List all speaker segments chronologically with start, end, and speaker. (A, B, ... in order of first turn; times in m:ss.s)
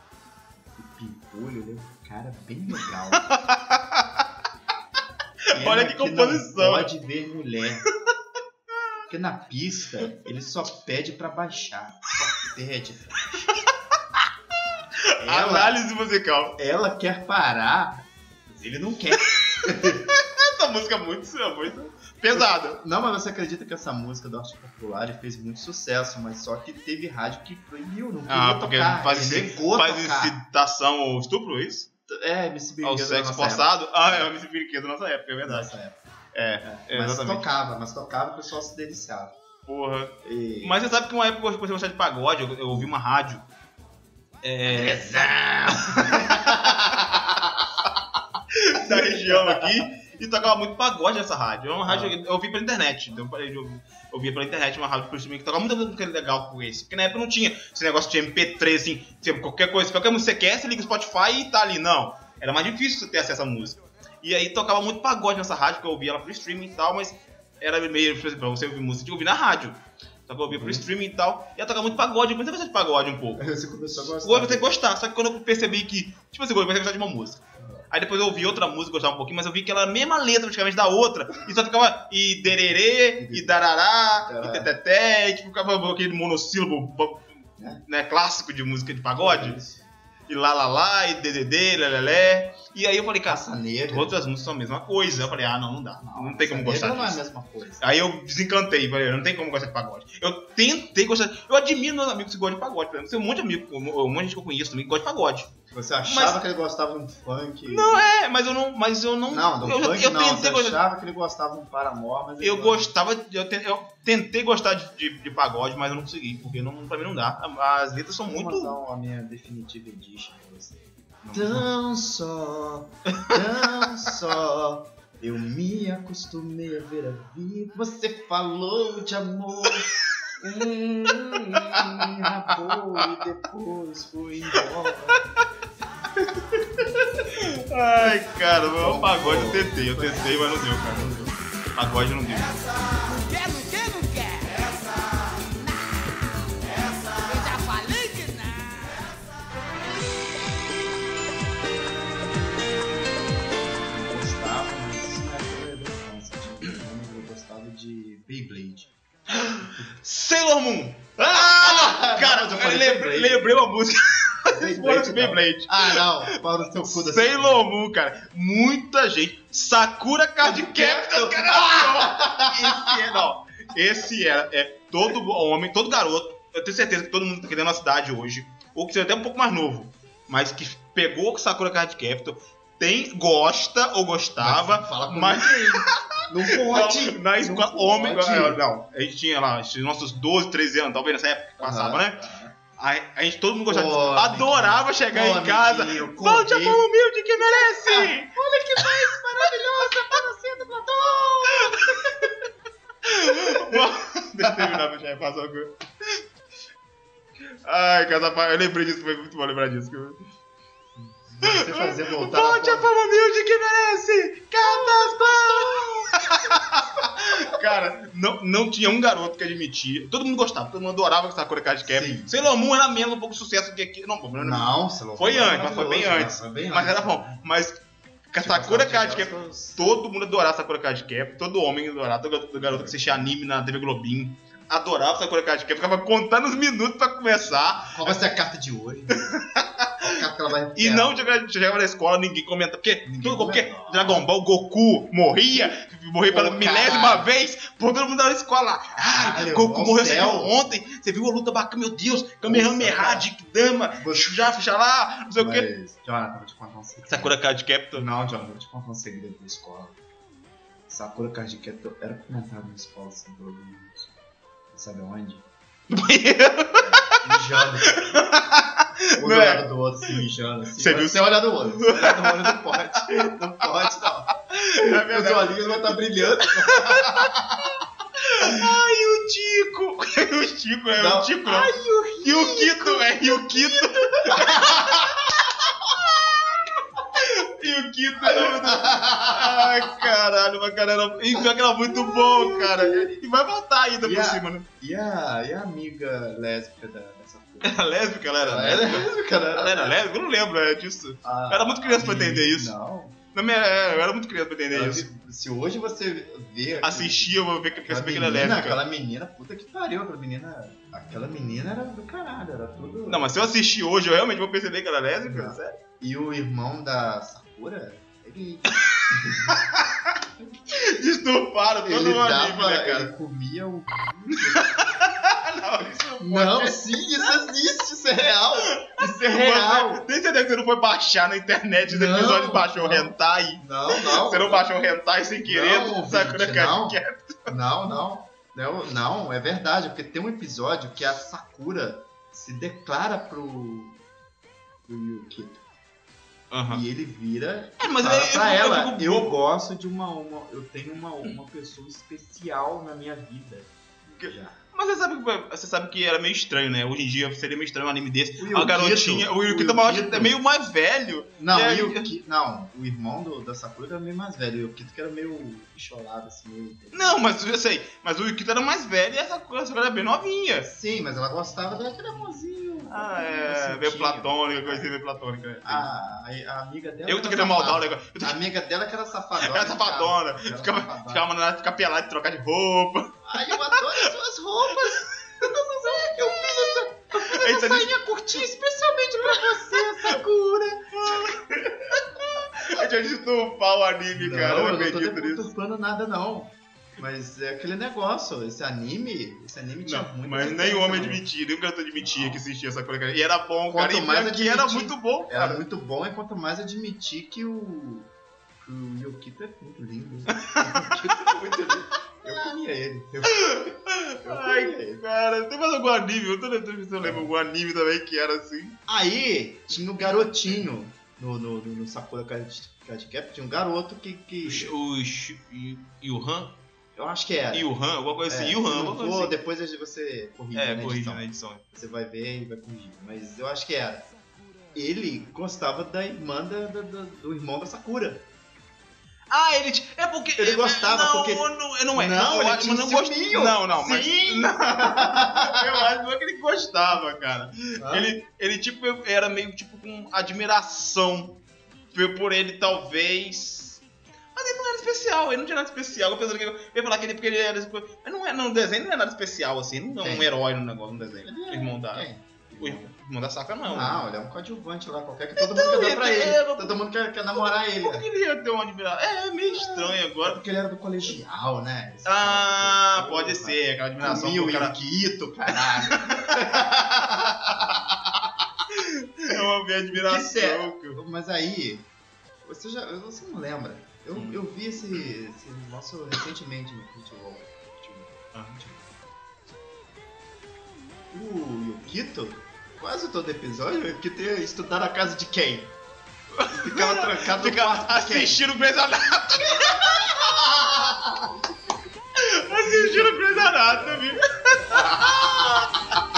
0:00.7-0:03.4 A
0:03.2-0:04.3 B
0:05.5-0:06.9 B
0:05.5-0:07.8 A
0:07.9-0:08.1 B
0:09.1-0:13.6 A
0:15.0-0:16.6 B
0:15.2-0:15.8 A
0:16.6-0:20.1 A
0:19.2-0:22.8 B
0:22.3-0:30.4 A
0:28.3-0:31.9 B
0:32.1-0:34.3 A
0:32.8-0:35.7 B
0:35.4-0:36.0 A
0:36.3-0:37.5 B
0:36.6-0:39.4 A
0:39.7-0:43.5 B
0:40.2-0:40.8 A
0:44.4-0:45.2 B
0:44.6-0:47.5 A
0:45.8-0:47.2 B
0:48.5-1:13.4 B
0:48.8-0:49.6 A
0:51.8-0:52.2 A
1:10.5-1:10.8 A
1:13.4-1:14.7 A
1:14.2-1:27.3 B
1:23.2-1:23.6 A
1:24.2-1:24.7 A
1:27.9-1:29.6 B
1:29.2-1:29.8 A
1:30.3-1:37.2 B
1:33.2-1:34.2 A
1:36.0-1:37.8 A
1:37.8-1:45.5 B
1:45.7-1:48.0 A
1:46.0-1:46.4 B
1:47.6-1:50.8 B
1:49.3-1:52.9 A
1:52.4-1:58.8 B
1:58.3-2:09.9 A
2:01.2-2:01.6 B
2:03.3-2:04.1 B
2:10.4-2:15.2 A
2:11.1-2:13.0 B
2:16.2-2:22.6 B
2:18.8-2:21.4 A
2:22.9-2:29.1 C
2:33.8-2:38.9 A
2:39.4-3:12.2 B
2:39.6-2:40.0 A
2:41.2-2:43.6 A
2:44.5-2:47.6 A
2:50.4-2:53.0 A
3:04.4-3:08.6 A
3:11.6-3:12.6 A
3:12.8-3:19.0 B
3:13.7-3:16.8 A
3:17.5-3:22.4 A
3:21.6-3:22.3 B
3:23.0-3:26.2 B
3:23.1-3:23.9 A
3:24.4-3:24.8 A
3:27.4-3:30.2 B
3:31.0-3:32.9 A
3:31.4-3:47.8 B
3:34.6-3:37.6 A
3:41.8-3:42.3 A
3:44.3-3:47.4 A
3:48.3-3:58.2 B
3:48.4-3:49.9 A
3:52.6-3:53.3 A
3:57.8-3:59.3 A
3:59.1-4:00.2 B
4:00.0-4:01.4 A
4:00.8-4:15.7 B
4:03.0-4:04.2 A
4:06.3-4:07.3 A
4:09.1-4:10.6 A
4:12.4-4:13.2 A
4:13.9-4:14.3 A
4:15.4-4:17.4 A
4:17.1-4:18.1 B
4:17.9-4:20.0 A
4:20.9-4:24.1 A
4:24.7-4:25.4 A
4:25.9-4:29.6 B
4:26.7-4:28.0 A
4:29.1-4:37.4 A
4:30.8-4:33.8 B
4:34.3-4:37.6 B
4:38.2-4:54.7 B
4:38.4-4:38.6 A
4:40.9-4:46.0 A
4:48.2-4:50.0 A
4:51.9-4:53.1 A
4:54.0-4:57.8 A
4:57.6-5:02.7 B
4:58.4-5:00.0 A
5:01.2-5:03.2 A
5:03.3-5:05.0 B
5:04.7-5:13.3 A
5:06.8-5:08.8 B
5:13.1-5:15.8 B
5:15.2-5:19.6 A
5:18.7-5:20.2 B
5:20.7-5:23.1 B
5:21.8-5:25.0 A
5:24.5-5:27.5 B
5:26.2-5:30.0 A
5:28.6-5:37.5 B
5:31.8-5:34.6 A
5:35.4-5:44.0 A
5:44.9-5:45.6 A
5:46.5-5:46.8 B
5:46.7-5:54.6 A
5:47.8-5:49.4 B
5:54.2-6:02.1 B
5:58.4-6:00.4 A
6:01.4-6:07.2 A
6:06.9-6:10.7 B
6:10.5-6:14.9 A
6:12.9-6:15.9 B
6:15.6-6:21.3 A
6:17.0-6:18.4 B
6:19.4-6:24.1 B
6:23.2-6:32.0 A
6:24.9-6:28.5 B
6:29.2-6:30.2 B
6:30.9-6:35.5 B
6:34.1-6:41.2 A
6:39.8-6:45.6 B
6:42.0-6:42.4 A
6:43.7-6:55.0 A
6:50.5-6:51.4 B
6:53.4-6:58.8 B
6:57.0-6:57.3 A
6:58.9-7:04.7 A
6:59.7-7:00.0 B
7:04.4-7:06.6 B
7:07.0-7:07.7 A
7:07.5-7:09.4 B
7:08.2-7:14.1 A
7:10.5-7:11.6 B
7:14.7-7:18.2 A
7:19.3-7:31.4 B
7:20.4-7:25.9 A
7:27.8-7:28.1 A
7:31.9-7:33.8 B
7:34.3-7:42.0 B
7:40.0-7:40.3 A
7:41.0-7:42.9 A
7:42.6-7:44.1 B
7:43.6-7:48.0 A
7:45.4-7:46.8 B
7:47.3-7:50.4 B
7:49.5-7:57.8 A
7:52.0-7:54.8 B
7:55.5-7:57.8 B
7:58.7-8:01.0 B
7:59.9-8:01.9 A
8:02.4-8:08.9 A
8:04.1-8:04.4 B
8:11.1-8:15.7 A
8:16.4-8:21.2 B
8:16.5-8:18.4 A
8:19.9-8:20.4 A
8:22.2-8:26.0 B
8:22.5-8:24.1 A
8:24.6-8:25.6 A